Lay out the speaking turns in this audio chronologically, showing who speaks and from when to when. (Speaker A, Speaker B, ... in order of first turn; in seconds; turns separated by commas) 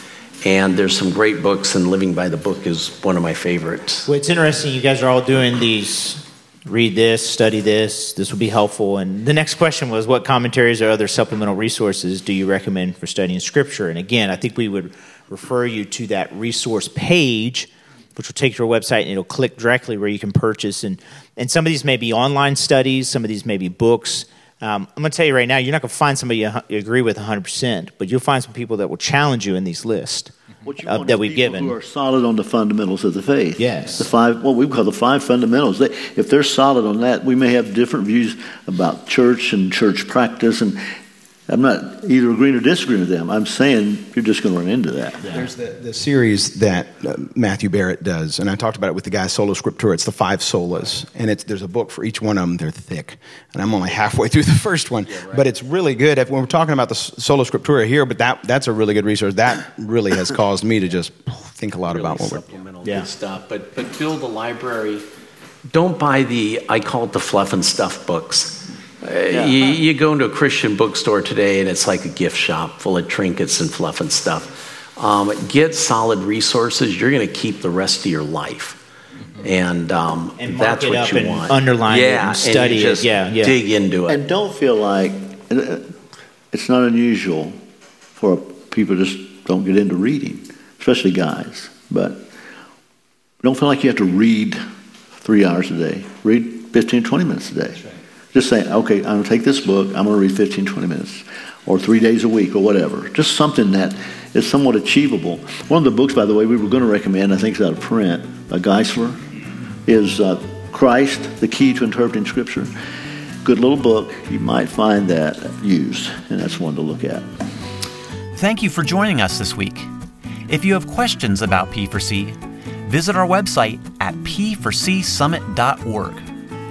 Speaker A: 0.4-4.1, Speaker B: 4.1-30.3, Speaker C: 30.6-40.8, Speaker B: 30.9-31.8, Speaker B: 33.6-34.1, Speaker C: 41.5-45.4, Speaker D: 45.3-62.6, Speaker A: 55.1-55.5, Speaker A: 61.9-65.0, Speaker A: 65.7-78.8, Speaker C: 69.3-69.8, Speaker A: 79.4-84.2, Speaker B: 80.4-83.5, Speaker C: 84.1-85.9, Speaker C: 86.5-87.5, Speaker C: 88.2-92.3, Speaker C: 93.4-94.6, Speaker C: 95.2-109.2, Speaker C: 109.9-112.8, Speaker C: 113.4-117.3, Speaker E: 118.3-119.9, Speaker E: 120.5-126.2